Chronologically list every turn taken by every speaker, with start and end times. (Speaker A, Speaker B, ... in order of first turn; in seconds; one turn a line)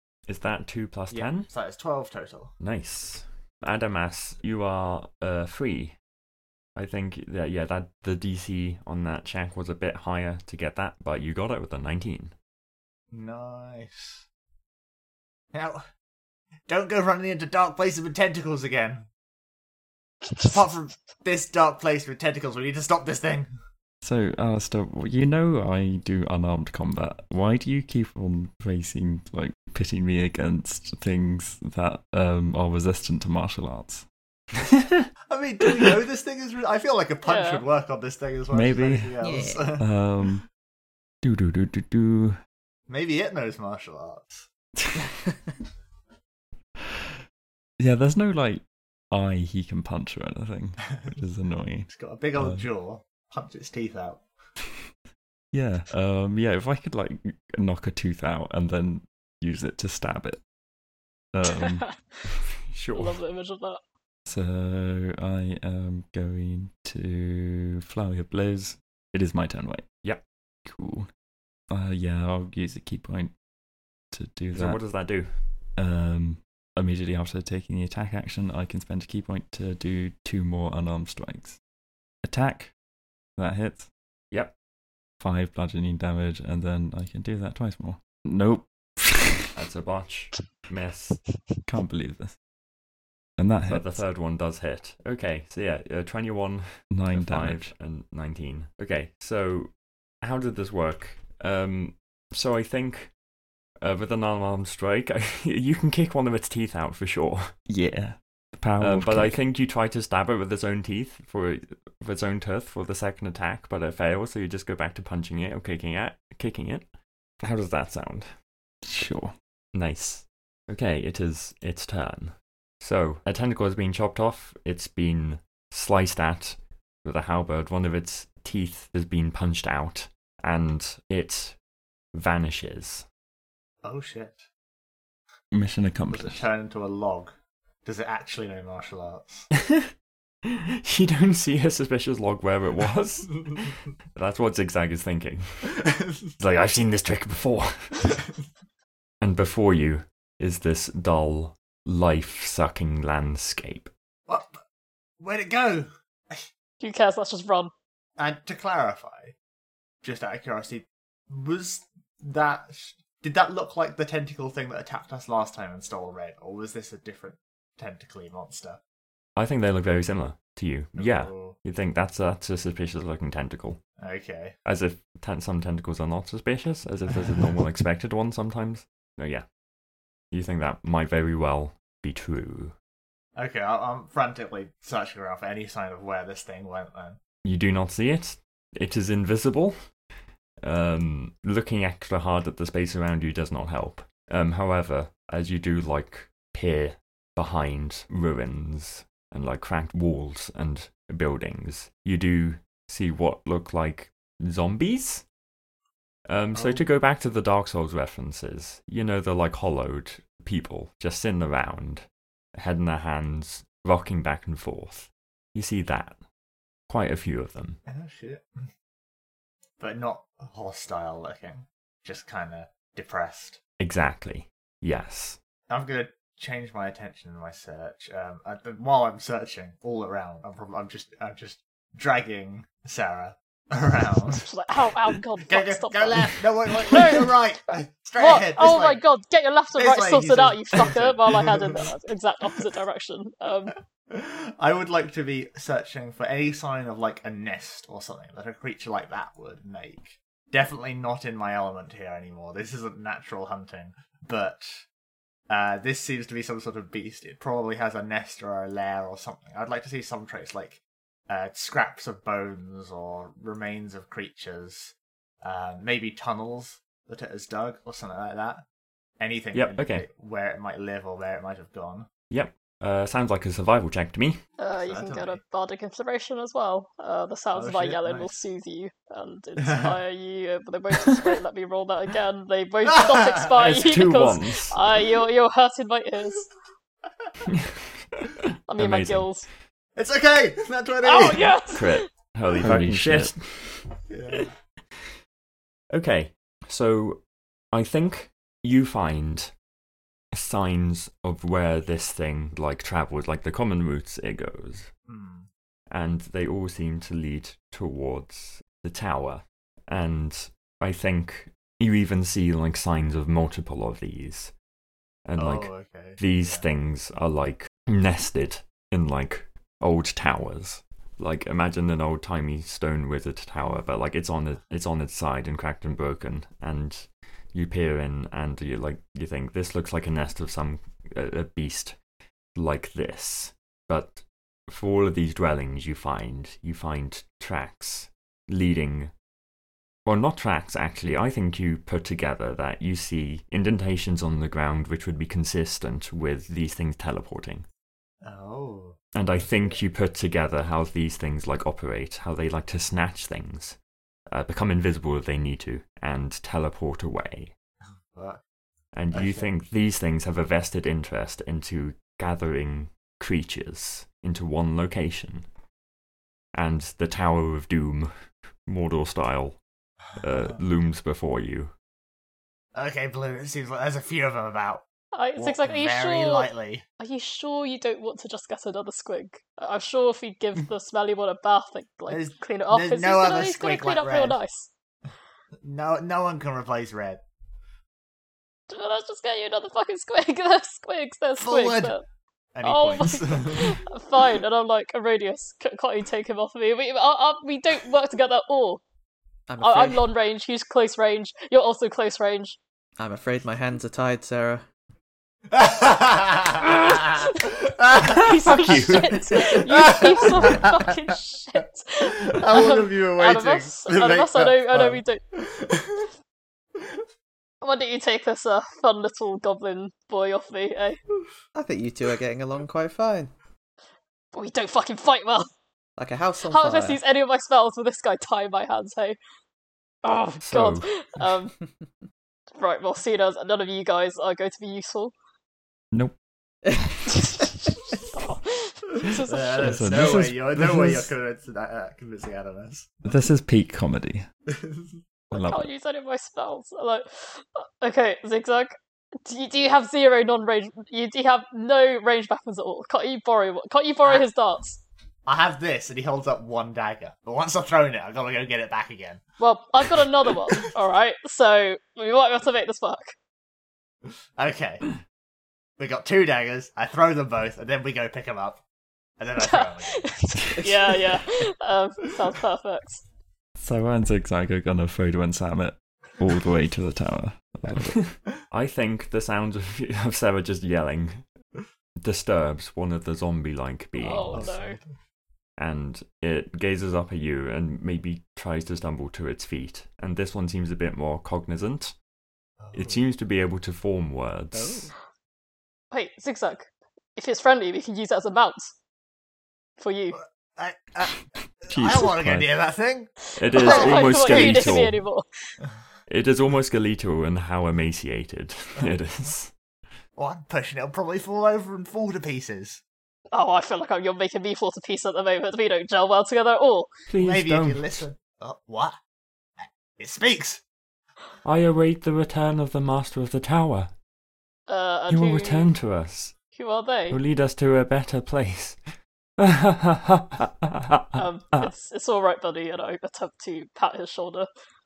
Speaker A: 0.3-1.5
Speaker B: 1.1-2.5
Speaker A: 2.6-6.0
Speaker A: 6.8-12.3
Speaker B: 13.1-14.2
Speaker B: 15.5-15.8
Speaker B: 16.7-19.1
Speaker B: 20.3-23.5
Speaker C: 24.0-34.1
Speaker B: 35.3-39.9
Speaker D: 37.2-37.6
Speaker C: 38.5-39.1
Speaker E: 39.2-39.8
Speaker C: 39.8-40.5
Speaker C: 41.2-42.4
Speaker B: 42.9-44.5
Speaker C: 47.8-52.7
Speaker B: 51.9-54.3
Speaker C: 55.5-60.4
Speaker C: 61.3-61.9
Speaker D: 61.4-62.2
Speaker A: 62.7-63.2
Speaker D: 62.9-63.8
Speaker C: 64.3-69.9
Speaker C: 70.7-71.1
Speaker C: 71.7-73.3
Speaker C: 74.1-74.9
Speaker A: 74.5-75.4
Speaker C: 75.8-81.6
Speaker C: 82.2-82.7
Speaker C: 83.4-83.9
Speaker C: 85.2-89.5
Speaker A: 89.5-91.3
Speaker C: 91.7-92.3
Speaker C: 93.4-94.0
Speaker A: 93.7-99.7
Speaker C: 96.9-97.7
Speaker A: 100.2-103.1
Speaker A: 103.8-107.5
Speaker C: 107.7-109.4
Speaker A: 108.8-116.9
Speaker A: 117.4-118.3
Speaker C: 118.8-119.3
Speaker A: 119.7-131.6
Speaker A: 132.1-133.1
Speaker B: 133.8-134.5
Speaker C: 135.5-136.4
Speaker B: 136.1-139.5
Speaker A: 140.5-145.8
Speaker A: 146.4-148.2
Speaker A: 149.2-153.9
Speaker B: 154.3-154.6
Speaker B: 155.2-156.5
Speaker D: 156.8-157.7
Speaker B: 158.2-159.3
Speaker B: 160.0-168.8
Speaker A: 169.4-173.8
Speaker B: 170.9-171.6
Speaker B: 174.0-174.6
Speaker A: 174.7-179.4
Speaker A: 180.3-182.8
Speaker B: 183.4-187.2
Speaker A: 187.4-189.8
Speaker A: 190.6-205.3
Speaker A: 206.3-216.2
Speaker B: 206.6-206.8
Speaker A: 216.9-217.8
Speaker B: 217.9-218.7
Speaker B: 219.8-223.6
Speaker A: 223.8-225.4
Speaker B: 225.7-234.5
Speaker D: 234.3-237.4
Speaker B: 235.4-239.0
Speaker D: 238.2-243.8
Speaker B: 239.8-241.9
Speaker B: 244.1-254.8
Speaker B: 255.5-268.6
Speaker B: 269.2-272.1
Speaker A: 269.5-270.1
Speaker A: 272.3-274.4
Speaker D: 274.6-286.5
Speaker B: 274.8-275.4
Speaker B: 277.5-278.4
Speaker B: 279.6-280.0
Speaker B: 282.9-283.6
Speaker A: 283.6-284.8
Speaker A: 287.5-289.3
Speaker D: 288.7-289.5
Speaker B: 290.0-291.6
Speaker D: 291.0-292.1
Speaker A: 291.7-293.9
Speaker C: 292.6-293.4
Speaker B: 294.1-294.5
Speaker A: 295.9-299.5
Speaker A: 300.3-304.9
Speaker B: 305.1-305.5
Speaker A: 305.9-314.5
Speaker A: 315.3-332.0
Speaker B: 315.4-316.7
Speaker A: 332.6-339.1
Speaker A: 340.1-347.7
Speaker B: 348.2-349.8
Speaker A: 349.1-353.8
Speaker A: 354.3-357.5
Speaker B: 358.1-358.4
Speaker A: 358.9-365.5
Speaker B: 359.1-359.5
Speaker A: 366.5-368.1
Speaker A: 368.7-369.6
Speaker A: 370.2-371.7
Speaker B: 372.7-374.8
Speaker D: 375.1-384.7
Speaker B: 375.4-376.8
Speaker B: 382.1-384.4
Speaker B: 385.6-387.2
Speaker D: 388.7-392.0
Speaker B: 391.4-392.0
Speaker B: 392.6-393.8
Speaker D: 392.6-398.8
Speaker E: 399.5-400.1
Speaker D: 399.6-402.6
Speaker E: 403.0-404.6
Speaker B: 405.5-408.8
Speaker D: 408.0-415.2
Speaker A: 408.1-409.3
Speaker B: 409.4-410.8
Speaker B: 412.0-416.1
Speaker D: 417.6-421.0
Speaker E: 421.6-423.3
Speaker D: 424.3-425.5
Speaker E: 426.0-427.0
Speaker D: 426.5-429.2
Speaker D: 430.0-431.6
Speaker A: 430.4-430.9
Speaker D: 432.6-435.1
Speaker C: 435.9-436.2
Speaker E: 436.6-436.9
Speaker C: 436.7-437.3
Speaker D: 437.2-440.1
Speaker B: 439.1-443.2
Speaker C: 439.6-441.1
Speaker C: 443.1-444.3
Speaker B: 444.5-445.0
Speaker C: 445.3-445.7
Speaker D: 445.3-454.8
Speaker B: 455.3-459.2
Speaker D: 459.4-463.1
Speaker B: 464.4-464.9
Speaker B: 465.8-468.6
Speaker B: 469.2-470.1
Speaker D: 469.4-473.0
Speaker C: 473.6-478.1
Speaker A: 478.5-481.2
Speaker A: 482.0-484.5
Speaker D: 484.0-484.8
Speaker B: 484.3-484.9
Speaker A: 485.6-492.0
Speaker B: 492.6-493.0
Speaker A: 492.7-494.9
Speaker B: 494.5-494.9
Speaker D: 495.9-498.7
Speaker D: 499.8-500.2
Speaker B: 500.6-504.8
Speaker C: 501.7-502.5
Speaker A: 503.4-505.0
Speaker D: 503.5-505.3
Speaker A: 506.1-509.5
Speaker B: 510.2-512.8
Speaker D: 513.3-516.9
Speaker A: 517.1-518.0
Speaker B: 517.2-519.0
Speaker B: 519.6-520.6
Speaker A: 521.4-523.9
Speaker D: 524.7-525.7
Speaker A: 525.1-526.4
Speaker D: 526.5-527.2
Speaker A: 527.1-528.8
Speaker A: 529.4-531.7
Speaker D: 531.2-534.5